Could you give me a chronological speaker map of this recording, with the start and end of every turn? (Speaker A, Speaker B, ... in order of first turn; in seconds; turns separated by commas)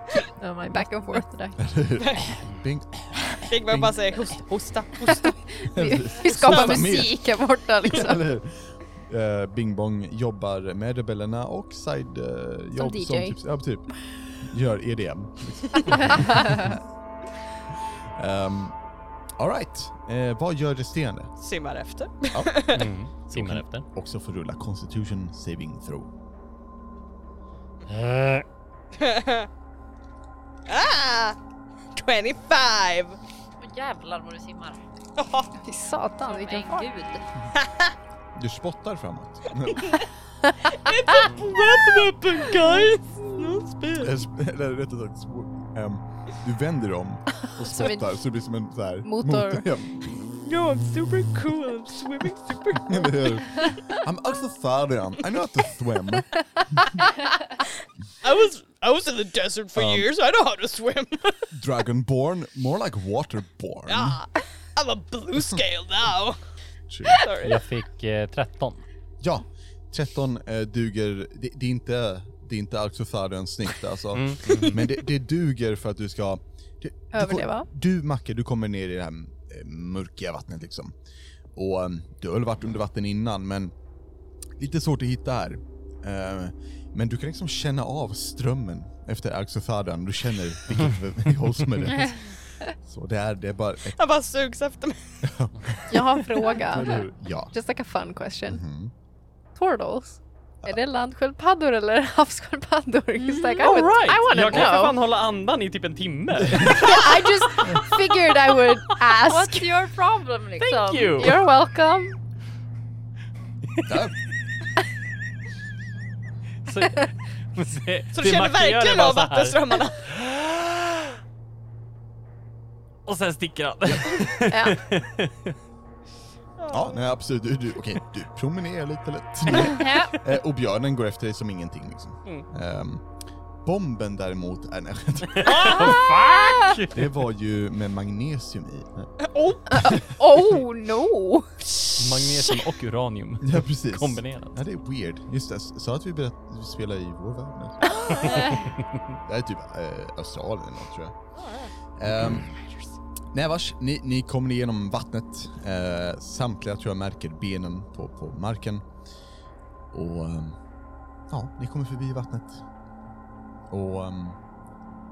Speaker A: 0.4-1.6, Speaker B: 0.7-1.2, Speaker C: 1.6-4.0, Speaker D: 2.0-2.4, Speaker D: 3.5-5.4, Speaker B: 5.5-8.2, Speaker C: 5.7-7.2, Speaker D: 6.5-6.9, Speaker C: 7.9-16.8, Speaker B: 12.8-13.4, Speaker C: 18.2-18.8, Speaker C: 19.4-21.3, Speaker D: 21.4-22.9, Speaker C: 22.3-22.6, Speaker E: 22.7-23.9, Speaker C: 23.3-26.1, Speaker E: 27.9-28.4, Speaker D: 28.9-29.5, Speaker D: 30.7-31.4, Speaker D: 31.9-33.2, Speaker A: 33.6-34.8, Speaker D: 35.2-35.5, Speaker B: 35.6-36.9, Speaker A: 36.2-37.3, Speaker D: 37.5-37.9, Speaker C: 38.4-40.0, Speaker D: 39.7-40.0, Speaker D: 40.6-44.2, Speaker C: 44.0-50.3, Speaker B: 47.6-48.0, Speaker B: 49.0-49.7, Speaker D: 50.4-53.4, Speaker C: 52.8-56.4, Speaker B: 56.8-57.0, Speaker D: 58.2-61.5, Speaker C: 59.7-60.1, Speaker C: 61.5-64.2, Speaker D: 63.9-66.4, Speaker C: 66.9-67.2, Speaker D: 67.1-67.6, Speaker E: 67.4-68.8, Speaker C: 69.2-81.0, Speaker E: 74.1-74.8, Speaker B: 77.1-77.7, Speaker C: 81.5-83.7, Speaker C: 84.6-94.0, Speaker D: 94.0-95.2, Speaker C: 95.2-97.5, Speaker B: 95.9-98.6, Speaker C: 98.5-98.9, Speaker B: 99.5-105.0, Speaker E: 103.4-108.4, Speaker B: 106.7-109.7, Speaker A: 109.2-111.3, Speaker E: 110.6-111.4, Speaker B: 111.2-112.2, Speaker C: 113.8-114.2, Speaker E: 116.7-121.2, Speaker D: 118.1-120.1, Speaker E: 123.1-125.5, Speaker C: 123.8-124.3, Speaker B: 124.5-124.8, Speaker D: 126.6-127.0, Speaker C: 126.7-133.1, Speaker A: 129.6-130.2, Speaker C: 133.6-136.0, Speaker E: 135.3-137.1, Speaker B: 135.9-136.6, Speaker C: 136.9-139.1, Speaker D: 139.2-139.6, Speaker B: 139.7-141.5, Speaker C: 139.7-140.1, Speaker E: 142.0-144.6, Speaker C: 143.4-148.6, Speaker E: 148.2-148.8, Speaker C: 149.2-151.2, Speaker D: 151.4-151.7, Speaker C: 152.0-152.5, Speaker C: 153.3-158.9, Speaker C: 159.9-160.6, Speaker C: 161.3-162.6, Speaker C: 163.7-164.4